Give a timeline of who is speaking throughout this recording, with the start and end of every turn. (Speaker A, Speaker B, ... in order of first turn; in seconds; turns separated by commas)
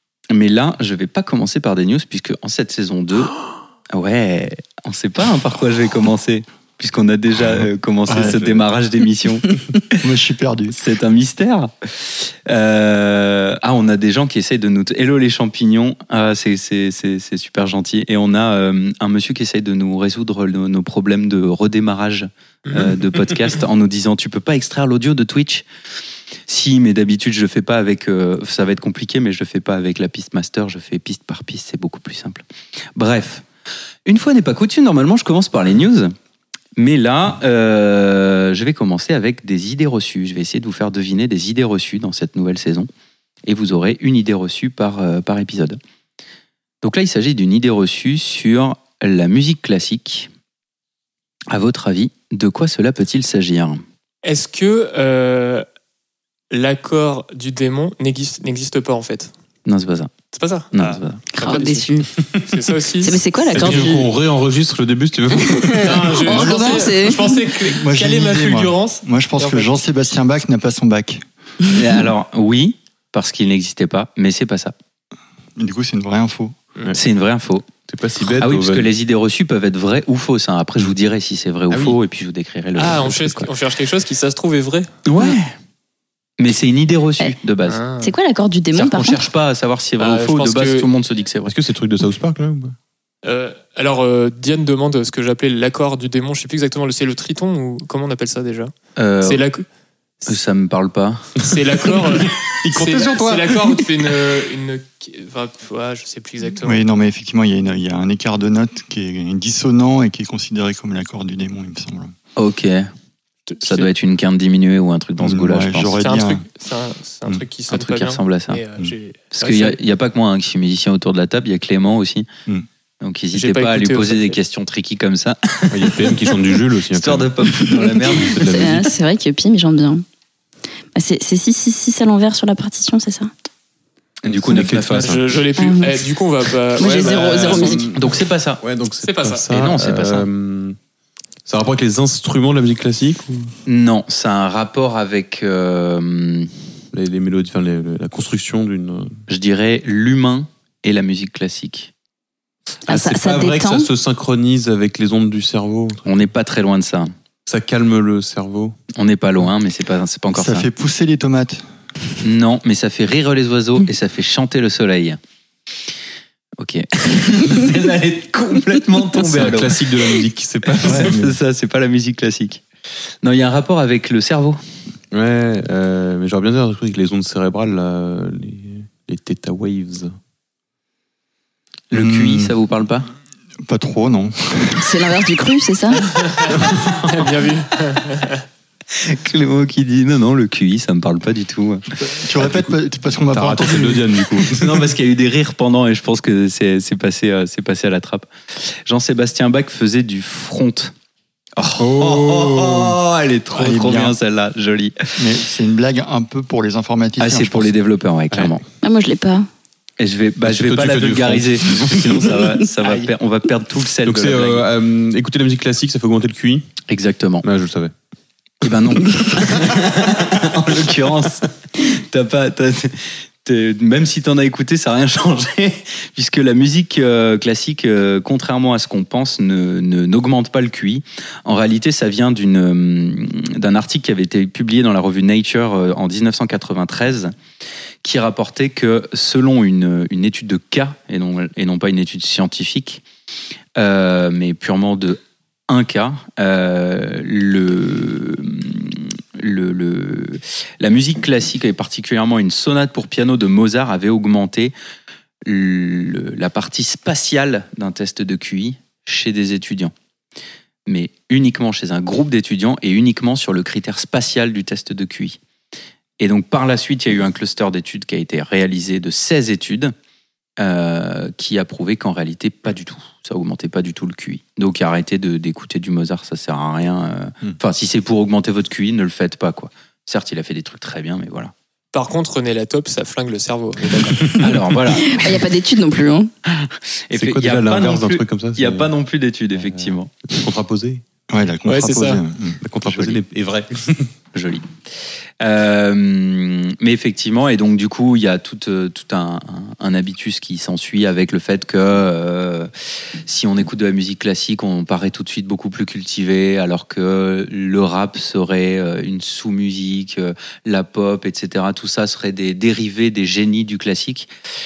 Speaker A: 0.3-3.3, Speaker A: 3.9-9.4, Speaker B: 8.1-8.6, Speaker B: 10.0-10.8, Speaker A: 10.7-11.7, Speaker A: 12.4-25.6, Speaker A: 26.5-32.4, Speaker A: 33.0-33.4, Speaker A: 34.0-36.1, Speaker A: 36.8-42.9, Speaker A: 43.5-45.8, Speaker A: 46.8-50.3, Speaker A: 51.5-53.8, Speaker C: 54.2-55.6, Speaker C: 56.5-59.3, Speaker A: 59.6-60.1, Speaker C: 60.3-60.7, Speaker A: 60.7-61.2, Speaker C: 61.3-61.9, Speaker D: 61.3-62.1, Speaker C: 62.4-63.9, Speaker D: 63.0-64.1, Speaker E: 63.5-66.8, Speaker D: 65.4-67.4, Speaker C: 65.8-69.7, Speaker B: 67.6-71.2, Speaker A: 71.7-74.7, Speaker B: 75.6-76.6, Speaker A: 76.9-77.7, Speaker E: 77.9-78.9, Speaker A: 78.3-83.5, Speaker E: 81.7-82.0, Speaker C: 82.7-84.9, Speaker A: 85.0-85.5, Speaker A: 86.4-87.8, Speaker C: 87.6-88.1, Speaker D: 88.0-89.2, Speaker A: 88.7-91.5, Speaker C: 90.0-90.9, Speaker E: 91.4-92.7, Speaker C: 93.2-99.6, Speaker A: 99.0-99.4, Speaker A: 100.3-101.3, Speaker C: 101.4-106.8, Speaker E: 102.2-103.8, Speaker B: 106.6-112.1, Speaker A: 112.3-112.9, Speaker C: 113.5-113.9, Speaker A: 113.6-116.0, Speaker B: 115.2-116.4, Speaker C: 116.0-119.8, Speaker A: 117.7-118.6, Speaker A: 119.4-122.3, Speaker A: 123.0-126.3, Speaker C: 123.3-124.3, Speaker E: 125.7-127.3, Speaker A: 126.9-128.9, Speaker D: 127.9-130.0, Speaker E: 128.2-128.8, Speaker D: 130.9-133.3, Speaker A: 134.2-135.3, Speaker E: 134.2-135.3, Speaker C: 135.0-137.8, Speaker D: 135.6-136.0, Speaker D: 136.8-137.8, Speaker E: 137.0-140.8, Speaker A: 137.9-138.6, Speaker C: 139.0-139.5, Speaker A: 139.4-140.3, Speaker E: 141.4-143.5, Speaker A: 143.7-146.5, Speaker E: 146.9-149.1, Speaker A: 149.3-151.9, Speaker D: 152.9-153.9, Speaker E: 152.9-156.2, Speaker A: 156.1-157.1, Speaker E: 157.4-158.7, Speaker A: 158.9-160.7, Speaker B: 160.3-161.6, Speaker A: 162.2-165.2, Speaker A: 166.6-172.6, Speaker E: 169.2-171.2, Speaker B: 170.8-171.3, Speaker A: 173.2-174.6, Speaker E: 175.1-180.1, Speaker A: 181.9-183.1, Speaker B: 181.9-182.5, Speaker B: 183.6-185.0, Speaker D: 184.8-186.2, Speaker C: 186.2-188.4, Speaker E: 186.6-186.9, Speaker A: 188.9-191.8, Speaker B: 192.0-194.3, Speaker E: 193.3-194.9, Speaker A: 194.4-200.9, Speaker A: 201.6-205.2, Speaker E: 201.8-203.0, Speaker B: 203.5-204.1, Speaker B: 205.2-207.7, Speaker A: 207.2-208.6, Speaker E: 208.3-208.6, Speaker D: 208.8-209.5, Speaker A: 210.0-214.7, Speaker E: 210.4-212.4, Speaker E: 214.0-216.7, Speaker A: 216.9-217.4, Speaker E: 217.4-217.9, Speaker A: 218.6-237.3, Speaker A: 238.0-243.0, Speaker A: 243.8-254.7, Speaker A: 255.4-259.9, Speaker A: 260.9-265.4, Speaker A: 266.2-269.9, Speaker A: 270.6-281.5, Speaker C: 281.9-284.3, Speaker E: 284.1-284.5, Speaker A: 284.2-285.5, Speaker D: 284.9-286.3, Speaker A: 286.4-290.2, Speaker E: 287.1-288.9, Speaker E: 289.7-291.0, Speaker B: 291.3-292.6, Speaker C: 291.7-292.2, Speaker E: 292.6-294.1, Speaker A: 292.9-293.2, Speaker A: 294.3-294.7, Speaker A: 295.4-302.7, Speaker A: 303.2-314.3